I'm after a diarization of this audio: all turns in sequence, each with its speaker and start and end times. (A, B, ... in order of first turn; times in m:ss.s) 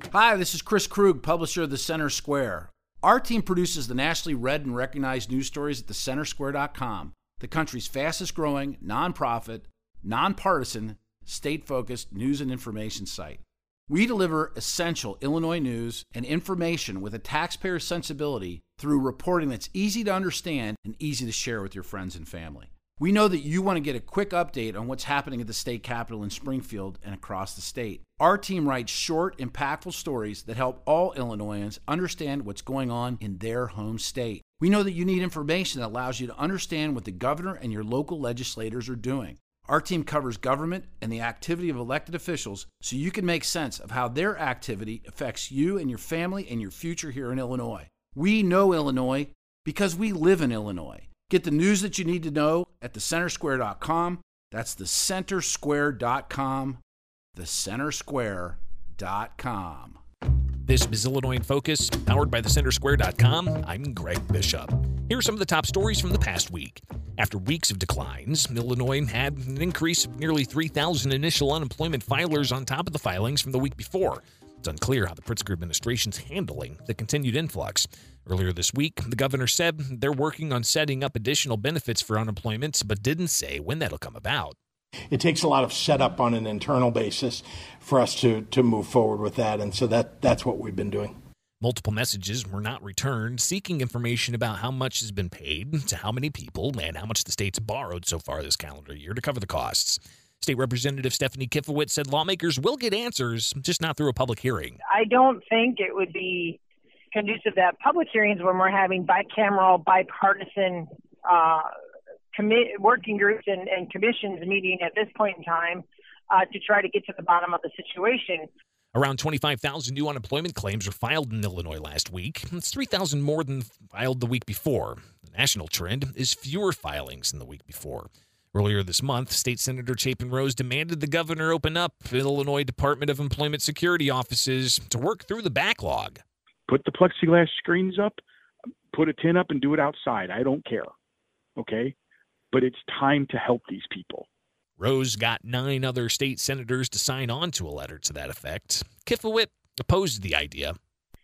0:00.1-0:56.8 A
0:57.3-1:00.0 A
1:00.7-1:24.6 B
1:25.1-1:31.1 C
1:31.6-1:44.8 B
1:44.9-1:46.6 D
1:47.1-1:51.7 D
1:52.3-1:58.5 D
1:58.9-2:16.2 B
2:16.7-2:18.2 E
2:18.9-2:20.9 E
2:21.6-2:21.9 E
2:22.5-2:24.3 E
2:24.8-2:30.8 B